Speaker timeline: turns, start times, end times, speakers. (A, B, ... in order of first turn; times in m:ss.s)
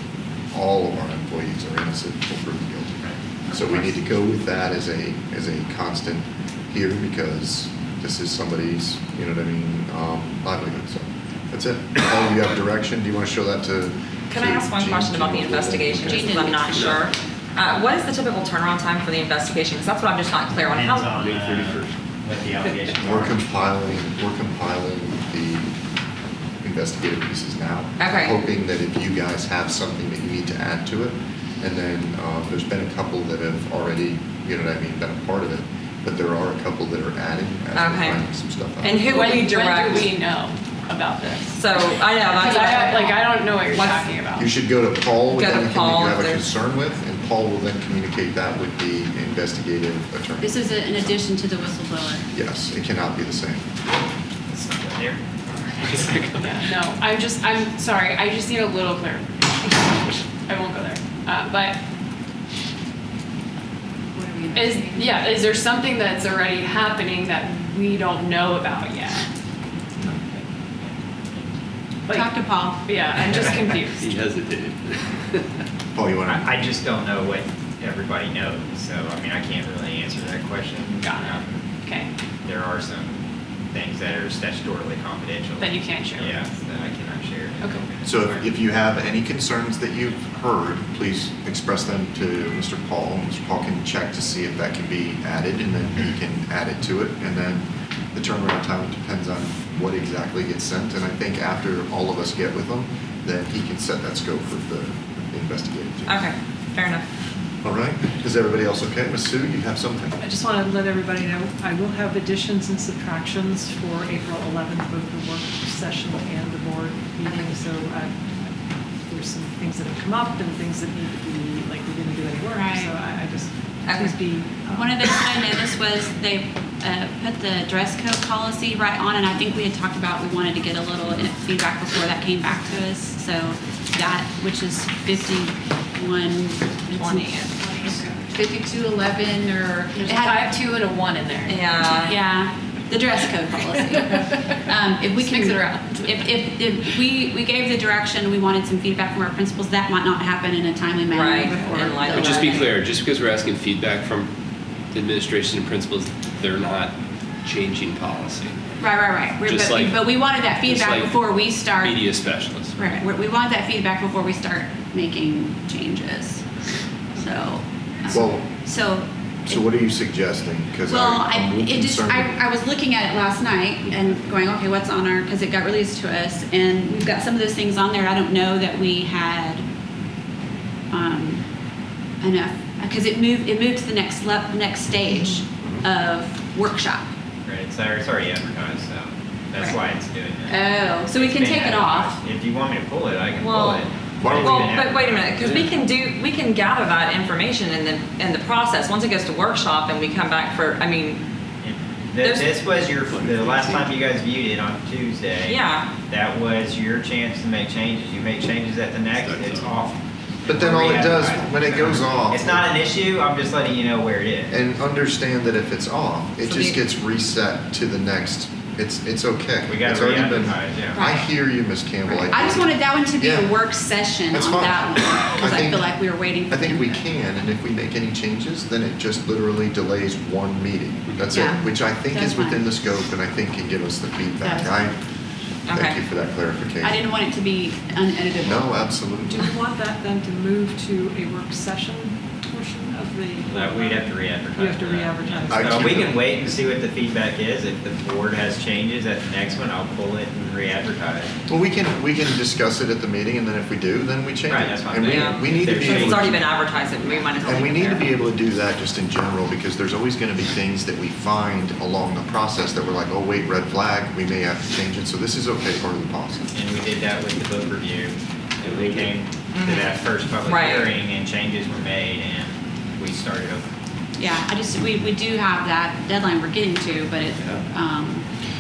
0:00.5-0:16.5 A
0:14.3-0:21.1 B
0:16.0-0:17.0 C
0:20.7-0:23.4 D
0:21.0-0:22.0 E
0:23.0-0:25.8 A
0:26.6-0:39.1 A
0:28.0-0:28.4 B
0:37.7-0:38.3 B
0:38.8-0:40.1 B
0:38.8-0:44.5 F
0:41.6-0:44.1 B
0:44.4-0:50.6 A
0:45.3-0:46.5 B
0:50.4-0:52.3 C
0:52.3-0:53.7 A
0:54.5-0:56.3 D
0:56.0-0:56.5 E
0:56.4-1:01.8 F
1:04.1-1:05.3 C
1:04.5-1:09.3 F
1:10.2-1:10.4 F
1:10.8-1:11.5 D
1:12.1-1:12.3 F
1:12.1-1:12.9 C
1:12.8-1:14.1 F
1:14.0-1:15.6 E
1:15.9-1:16.5 A
1:16.3-1:21.7 D
1:21.0-1:22.1 F
1:22.4-1:23.2 D
1:23.7-1:28.5 D
1:25.6-1:26.4 F
1:27.6-1:27.8 F
1:28.0-1:46.3 A
1:46.1-1:47.0 B
1:47.6-1:50.2 A
1:50.2-2:05.1 G
2:02.5-2:02.9 C
2:03.9-2:04.2 B
2:04.7-2:20.6 C
2:16.9-2:17.6 B
2:20.0-2:21.8 F
2:21.5-2:22.2 B
2:22.0-2:32.8 C
2:23.7-2:24.5 F
2:25.1-2:26.3 F
2:31.1-2:32.7 B
2:32.1-2:34.3 E
2:34.9-2:38.6 E
2:38.8-2:42.0 C
2:39.4-2:42.8 E
2:42.8-2:46.4 C
2:47.2-2:49.7 C
2:48.1-2:48.5 A
2:49.5-2:52.3 A
2:50.9-2:59.6 C
3:00.9-3:01.4 C
3:02.2-3:07.1 C
3:07.5-3:15.7 D
3:10.5-3:12.2 C
3:13.4-3:13.9 B
3:14.2-3:14.8 A
3:14.4-3:21.2 B
3:21.6-3:34.5 D
3:22.2-3:22.6 B
3:23.1-3:23.9 E
3:25.4-3:25.9 B
3:29.2-3:29.8 E
3:30.5-3:32.6 A
3:34.5-3:43.6 A
3:36.4-3:36.8 B
3:39.7-3:41.0 D
3:40.9-3:41.3 C
3:42.1-3:47.0 C
3:44.3-3:55.0 A
3:51.3-3:52.7 C
3:54.4-3:54.9 C
3:55.7-3:56.0 B
3:55.7-3:57.0 A
3:56.8-3:58.9 C
3:58.4-3:59.5 A
3:59.2-4:06.2 G
4:03.5-4:11.4 D
4:05.5-4:06.2 A
4:11.5-4:16.4 A
4:14.5-4:16.3 D
4:15.0-4:18.1 B
4:17.4-4:26.5 A
4:26.5-4:33.7 D
4:29.5-4:31.0 B
4:34.2-4:38.3 C